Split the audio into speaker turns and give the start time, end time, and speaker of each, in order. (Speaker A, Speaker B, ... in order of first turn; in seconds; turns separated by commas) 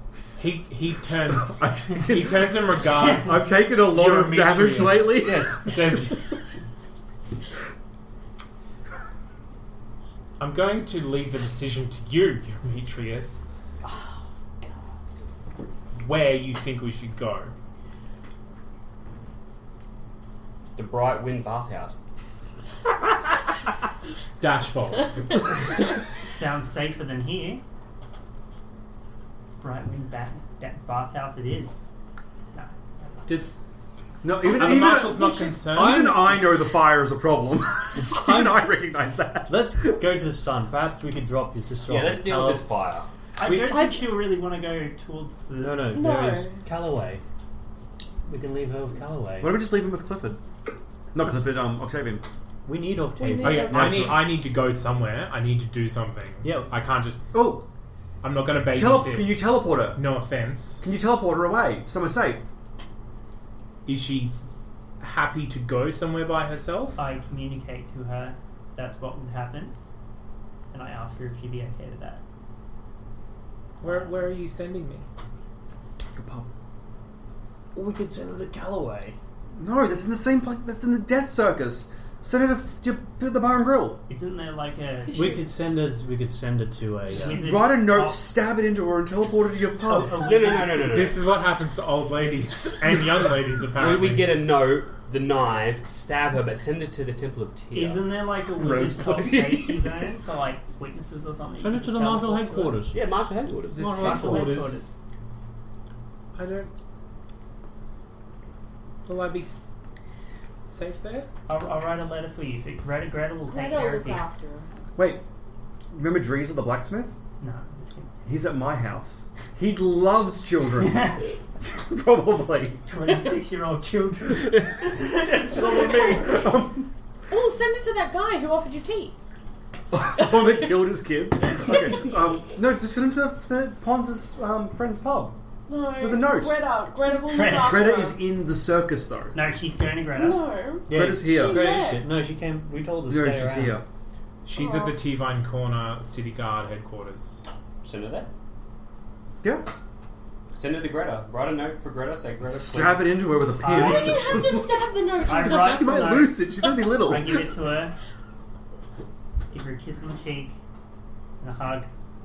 Speaker A: 0.4-6.3, Speaker B: 1.3-6.0, Speaker C: 2.9-3.5, Speaker D: 5.2-5.7, Speaker A: 10.4-13.4, Speaker A: 16.0-17.5, Speaker D: 20.8-22.0, Speaker A: 24.4-25.4, Speaker C: 26.3-27.6, Speaker C: 29.6-31.8, Speaker C: 32.5-33.2, Speaker A: 33.3-33.6, Speaker B: 34.2-40.0, Speaker A: 34.4-36.2, Speaker E: 35.7-36.6, Speaker E: 38.1-38.7, Speaker E: 39.5-42.7, Speaker D: 41.9-43.1, Speaker C: 43.4-45.9, Speaker F: 43.5-44.1, Speaker E: 45.6-47.2, Speaker F: 45.9-46.6, Speaker E: 48.3-49.6, Speaker B: 49.4-50.4, Speaker B: 51.1-52.2, Speaker E: 52.7-54.0, Speaker A: 53.2-57.2, Speaker F: 53.3-54.1, Speaker B: 53.7-54.4, Speaker E: 56.4-56.7, Speaker B: 57.3-57.6, Speaker A: 58.2-60.9, Speaker B: 58.7-60.0, Speaker B: 60.8-62.4, Speaker A: 63.9-64.4, Speaker A: 65.0-67.0, Speaker C: 67.0-69.8, Speaker C: 70.7-72.2, Speaker A: 73.8-75.1, Speaker C: 73.8-74.2, Speaker B: 76.1-76.5, Speaker E: 77.8-79.2, Speaker B: 79.6-84.0, Speaker C: 84.1-85.2, Speaker F: 85.1-85.5, Speaker E: 85.1-87.4, Speaker C: 87.1-88.2, Speaker B: 87.2-90.3, Speaker C: 89.8-91.0, Speaker D: 90.1-91.2, Speaker A: 90.8-94.3, Speaker D: 93.7-100.1, Speaker C: 97.7-102.9, Speaker E: 98.6-98.9, Speaker E: 101.6-103.0, Speaker D: 102.9-104.0, Speaker A: 103.7-104.9, Speaker C: 103.8-105.0, Speaker E: 103.8-104.5, Speaker A: 106.3-106.7, Speaker A: 109.1-109.6, Speaker A: 110.7-111.3, Speaker C: 111.5-114.2, Speaker F: 113.5-114.7, Speaker B: 115.0-115.2, Speaker B: 115.9-117.2, Speaker C: 117.4-118.3, Speaker B: 118.2-122.8, Speaker C: 120.8-121.3, Speaker C: 122.9-126.2, Speaker F: 123.0-123.4, Speaker B: 125.3-126.9, Speaker F: 127.3-129.2, Speaker B: 129.9-135.4, Speaker F: 130.2-130.7, Speaker F: 135.7-138.2, Speaker B: 136.0-136.7, Speaker C: 137.0-138.0, Speaker B: 137.4-139.4, Speaker C: 139.3-140.5, Speaker F: 140.1-142.2, Speaker B: 140.9-141.9, Speaker E: 140.9-143.8, Speaker B: 143.1-143.9, Speaker A: 144.4-147.4, Speaker F: 144.5-145.0, Speaker D: 147.8-148.3, Speaker B: 149.4-149.7, Speaker D: 150.5-153.2, Speaker B: 152.4-157.6, Speaker C: 153.5-154.5, Speaker F: 153.7-155.9, Speaker C: 155.3-157.9, Speaker C: 159.5-160.6, Speaker C: 161.4-161.9